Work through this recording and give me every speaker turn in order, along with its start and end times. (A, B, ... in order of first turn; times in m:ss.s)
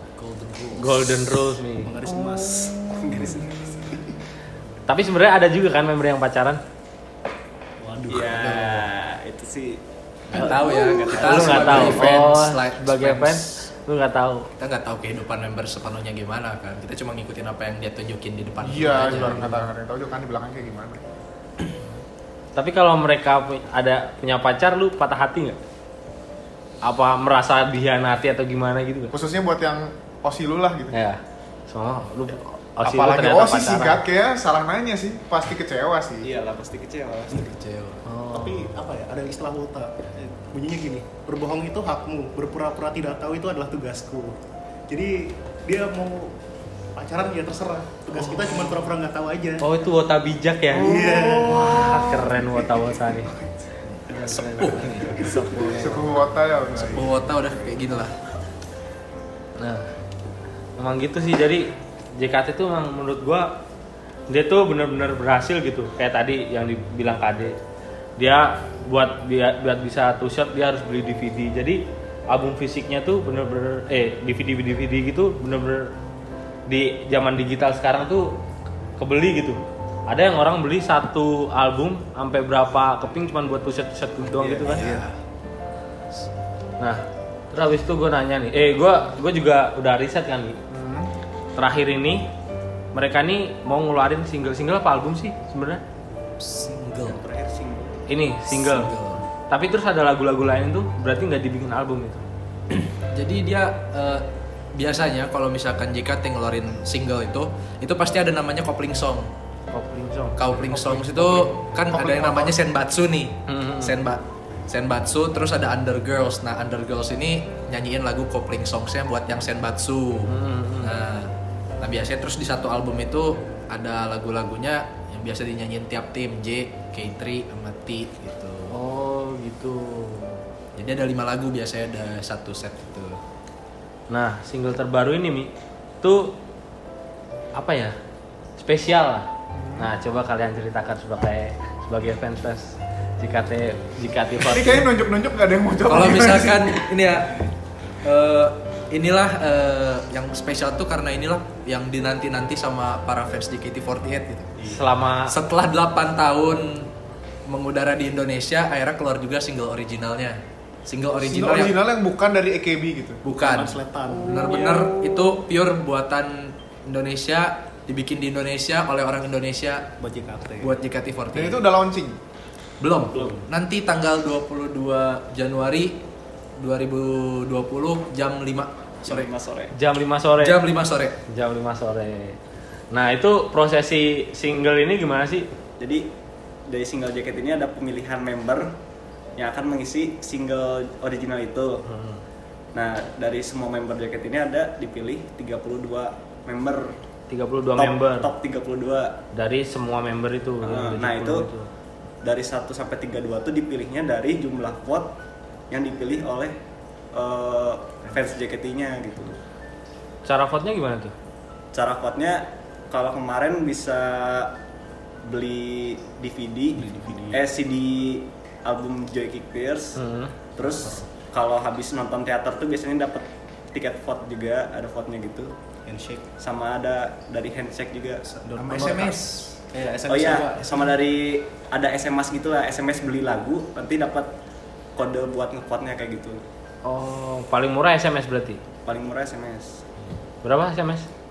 0:00.1-0:01.2 A
0:00.8-0:01.9 B
0:01.8-0:03.4 C
0:02.0-0:04.0 D
0:03.0-0:03.5 E
0:04.9-0:06.6 B
0:07.8-0:08.5 C
0:08.1-0:08.8 A
0:08.1-0:12.0 E
0:10.3-0:13.7 A
0:10.3-0:11.8 C
0:11.2-0:14.5 B
0:14.6-0:19.5 A
0:18.6-0:21.0 D
0:19.1-0:19.5 B
0:22.6-0:25.6 B
0:26.8-0:29.1 B
0:29.1-0:30.9 D
0:30.9-0:34.0 B
0:32.8-0:36.3 D
0:36.2-0:37.6 E
0:37.3-0:38.1 A
0:38.0-0:38.6 B
0:38.3-0:44.4 C
0:44.9-0:46.3 C
0:47.0-0:49.6 C
0:48.1-0:48.9 B
0:49.6-0:53.3 B
0:50.7-0:52.8 C
0:50.9-0:52.0 D
0:53.8-0:55.5 A
0:54.1-0:56.0 B
0:55.8-0:57.2 D
0:56.8-0:58.1 A
0:59.6-0:59.9 B
1:00.8-1:03.6 B
1:04.3-1:07.6 B
1:08.2-1:15.9 B
1:16.7-1:18.3 B
1:19.0-1:25.0 B
1:24.4-1:24.9 E
1:24.6-1:25.2 A
1:26.8-1:30.6 B
1:30.7-1:31.1 D
1:31.6-1:32.2 B
1:32.9-1:35.8 B
1:36.4-1:37.2 A
1:37.0-1:38.0 E
1:38.1-1:38.9 B
1:38.5-1:39.3 A
1:39.5-1:42.2 B
1:42.8-1:49.3 A
1:49.7-1:50.4 B
1:50.4-2:08.8 A
1:50.7-1:52.6 D
1:53.5-1:53.9 B
2:00.3-2:01.0 B
2:08.7-2:10.4 B
2:10.8-2:13.2 A
2:14.1-2:16.3 B
2:17.5-2:17.9 B
2:18.6-2:19.3 B
2:19.5-2:19.9 D
2:19.8-2:24.9 B
2:24.4-2:26.8 D
2:25.9-2:27.4 A
2:28.0-2:34.6 A
2:34.6-2:35.4 B
2:35.3-2:36.9 A
2:37.5-2:41.8 A
2:41.2-2:43.2 D
2:43.2-2:49.9 A
2:43.3-2:44.5 C
2:44.3-2:45.2 D
2:50.0-2:50.8 C
2:50.6-2:51.6 A
2:51.3-2:52.2 D
2:52.8-2:56.0 A
2:53.1-2:53.4 E
2:56.6-2:59.3 A
2:59.0-2:59.7 E
2:59.7-3:00.6 B
3:00.4-3:01.2 A
3:01.3-3:02.4 B
3:02.9-3:05.5 B
3:05.8-3:06.0 E
3:06.7-3:08.7 E
3:09.4-3:11.8 E
3:11.8-3:12.2 B
3:12.7-3:16.9 E
3:17.3-3:18.3 B
3:17.8-3:19.2 E
3:19.3-3:21.7 B
3:20.6-3:21.5 E
3:22.2-3:25.1 E
3:25.7-3:26.6 E
3:27.1-3:29.4 E
3:30.2-3:31.1 B
3:31.7-3:34.5 E
3:35.2-3:40.0 E
3:36.7-3:37.4 C
3:40.0-3:40.3 B
3:40.6-3:45.5 E
3:40.6-3:41.0 C
3:45.8-3:46.2 C
3:46.4-3:48.2 E
3:48.3-3:51.0 C
3:48.6-3:49.6 A
3:50.1-3:54.3 E
3:55.0-3:56.4 E
3:56.8-3:58.6 B
3:58.8-3:59.8 E
4:00.4-4:01.1 B